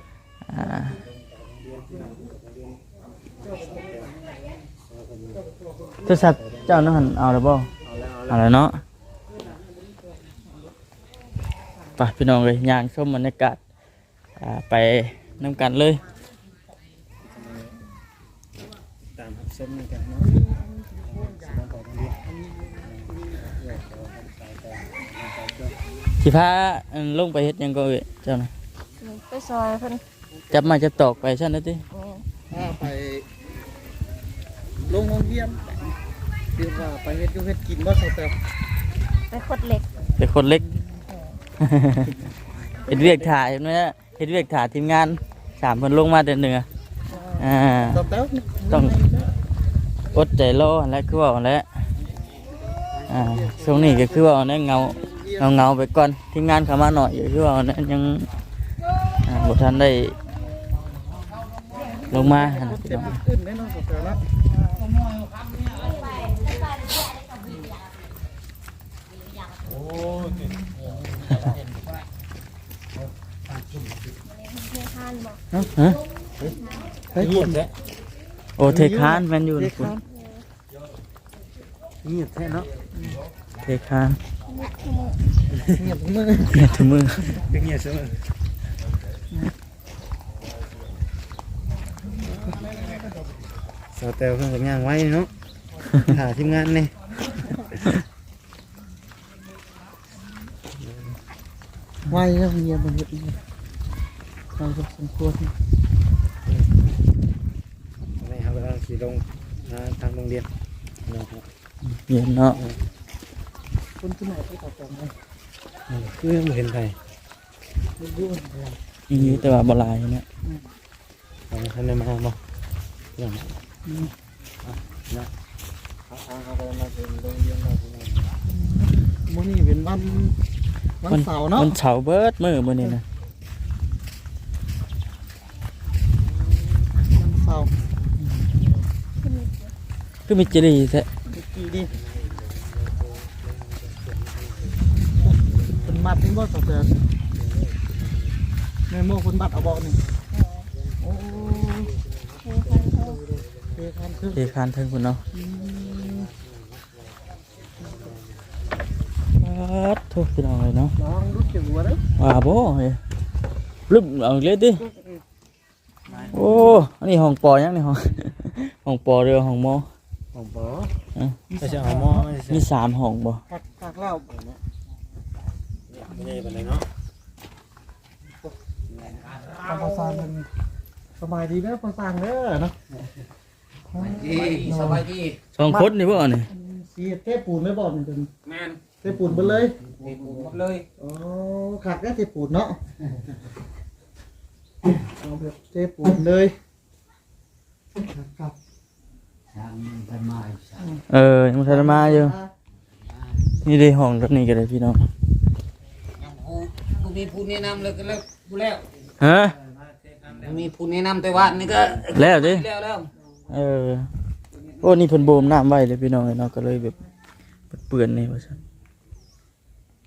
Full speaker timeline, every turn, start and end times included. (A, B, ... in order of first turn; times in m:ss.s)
0:00.5-0:01.0 A
0:01.6-0:02.8 B
0:03.5-0:04.1 B
0:04.9-0:05.4 B
0:06.0-0:07.7 A
0:07.8-0:08.4 B
0:08.3-0:08.8 A
0:12.0-0:13.6 A
0:14.4-0:16.0 A
0:17.2-0:17.8 B
0:19.1-0:20.4 B
0:20.2-0:21.7 C
0:21.2-0:22.2 B
0:22.8-0:25.8 B
0:26.2-0:28.5 A
0:29.0-0:30.0 D
0:30.3-0:30.8 C
0:30.5-0:31.8 A
0:31.9-0:32.2 D
0:32.5-0:33.2 C
0:34.8-0:35.6 C
0:36.5-0:38.4 C
0:39.3-0:39.8 D
0:40.2-0:40.6 A
0:41.1-0:41.4 D
0:41.6-0:42.2 A
0:42.8-0:46.6 A
0:42.9-0:43.3 C
0:47.1-0:47.5 D
0:47.4-0:48.0 A
0:47.9-0:49.3 C
0:50.1-0:51.6 A
0:52.9-0:55.6 C
0:53.1-0:58.3 A
0:59.2-1:00.2 A
1:02.1-1:03.2 A
1:02.1-1:04.2 C
1:14.2-1:15.4 D
1:15.5-1:15.8 C
1:17.1-1:17.7 C
1:18.6-1:19.9 A
1:18.6-1:20.0 C
1:20.1-1:20.4 D
1:22.0-1:22.7 B
1:22.9-1:23.2 C
1:23.6-1:24.2 A
1:24.5-1:25.2 D
1:25.6-1:26.7 C
1:26.5-1:27.4 A
1:27.3-1:28.2 B
1:33.9-1:35.3 B
1:36.0-1:36.9 B
1:40.8-1:41.2 B
1:42.1-1:43.4 C
1:44.5-1:45.5 C
1:48.2-1:50.5 B
1:51.0-1:51.4 B
1:51.8-1:52.6 A
1:54.0-1:55.1 C
1:55.9-1:57.0 B
1:58.0-1:58.8 C
1:59.1-2:00.2 A
1:59.2-1:59.5 B
2:01.5-2:02.4 B
2:03.2-2:03.5 B
2:03.8-2:04.1 C
2:04.6-2:05.3 B
2:06.1-2:08.4 B
2:08.5-2:10.4 C
2:11.0-2:11.8 C
2:11.1-2:13.0 A
2:17.0-2:17.7 C
2:19.2-2:19.7 D
2:20.3-2:21.1 A
2:21.3-2:21.9 C
2:22.8-2:24.6 B
2:25.2-2:27.0 C
2:27.5-2:27.9 B
2:28.9-2:30.0 C
2:30.3-2:30.7 D
2:31.0-2:32.0 C
2:32.4-2:33.2 D
2:33.7-2:34.5 C
2:34.3-2:35.2 A
2:35.3-2:36.3 C
2:36.0-2:36.8 B
2:39.4-2:40.9 A
2:41.0-2:42.0 C
2:42.2-2:43.0 A
2:43.9-2:44.8 A
2:44.8-2:45.2 C
2:46.3-2:49.8 A
2:46.3-2:46.7 C
2:50.4-2:50.9 C
2:51.5-2:52.3 C
2:51.6-2:52.6 B
2:52.5-2:53.4 A
2:53.5-2:54.6 C
2:55.9-2:56.8 B
2:59.5-3:00.5 C
3:01.2-3:02.7 C
3:03.9-3:06.0 C
3:04.3-3:05.3 E
3:05.6-3:06.5 A
3:06.5-3:08.3 C
3:08.5-3:08.8 E
3:09.0-3:09.8 C
3:10.0-3:10.8 E
3:11.0-3:12.8 C
3:15.0-3:16.5 C
3:18.0-3:18.6 C
3:21.1-3:22.4 A
3:21.6-3:22.5 C
3:23.6-3:25.1 A
3:26.2-3:28.8 E
3:29.2-3:29.6 A
3:30.4-3:33.1 E
3:32.1-3:32.7 A
3:33.5-3:34.1 A
3:34.8-3:37.0 A
3:37.7-3:38.6 A